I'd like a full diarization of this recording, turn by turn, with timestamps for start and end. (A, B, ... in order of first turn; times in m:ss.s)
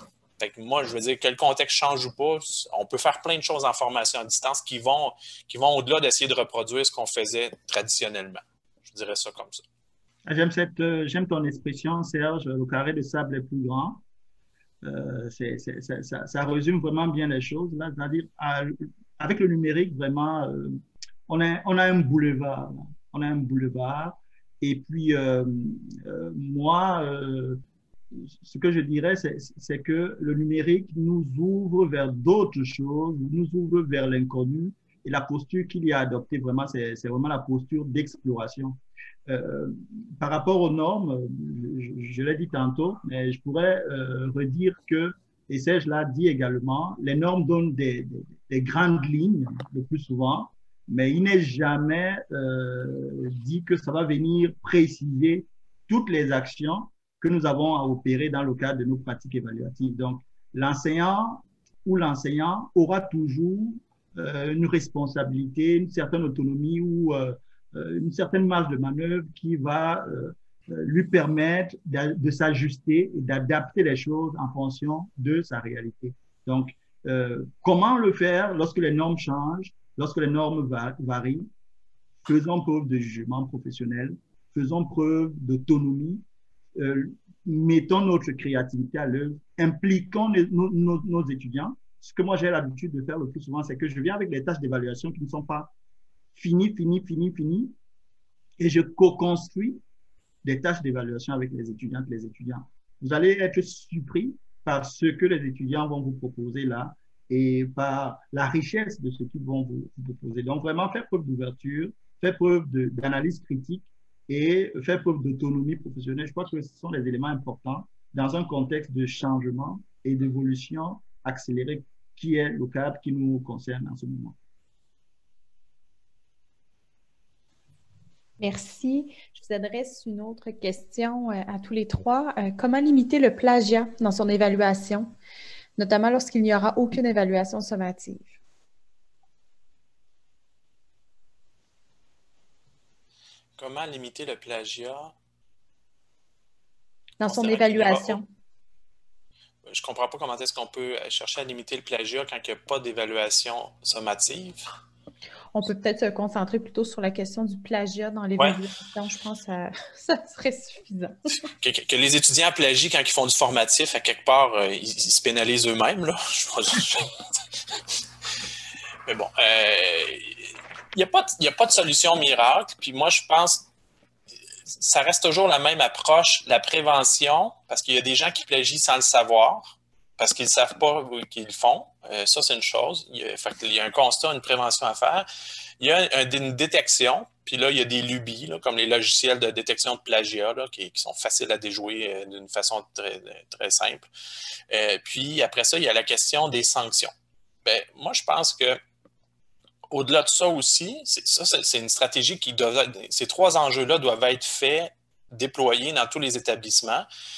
0:00.4-0:09.6 A
0:10.3-0:14.0 B
0:14.8-0:27.6 B
0:28.1-1:21.5 B
1:22.2-1:26.2 B
1:26.8-1:35.7 B
1:36.4-1:37.7 B
1:38.6-1:39.8 B
1:40.4-2:04.4 B
2:08.4-2:15.1 C
2:15.8-2:18.4 C
2:23.6-2:25.1 A
2:27.2-2:28.3 C
2:27.2-2:28.2 A
2:29.6-2:34.6 A
2:35.5-2:41.2 C
2:41.6-2:47.4 A
2:49.1-2:53.7 A
2:54.7-3:05.3 A
3:05.8-3:14.1 A
3:14.7-3:17.1 A
3:17.6-3:18.8 A
3:19.9-3:27.1 A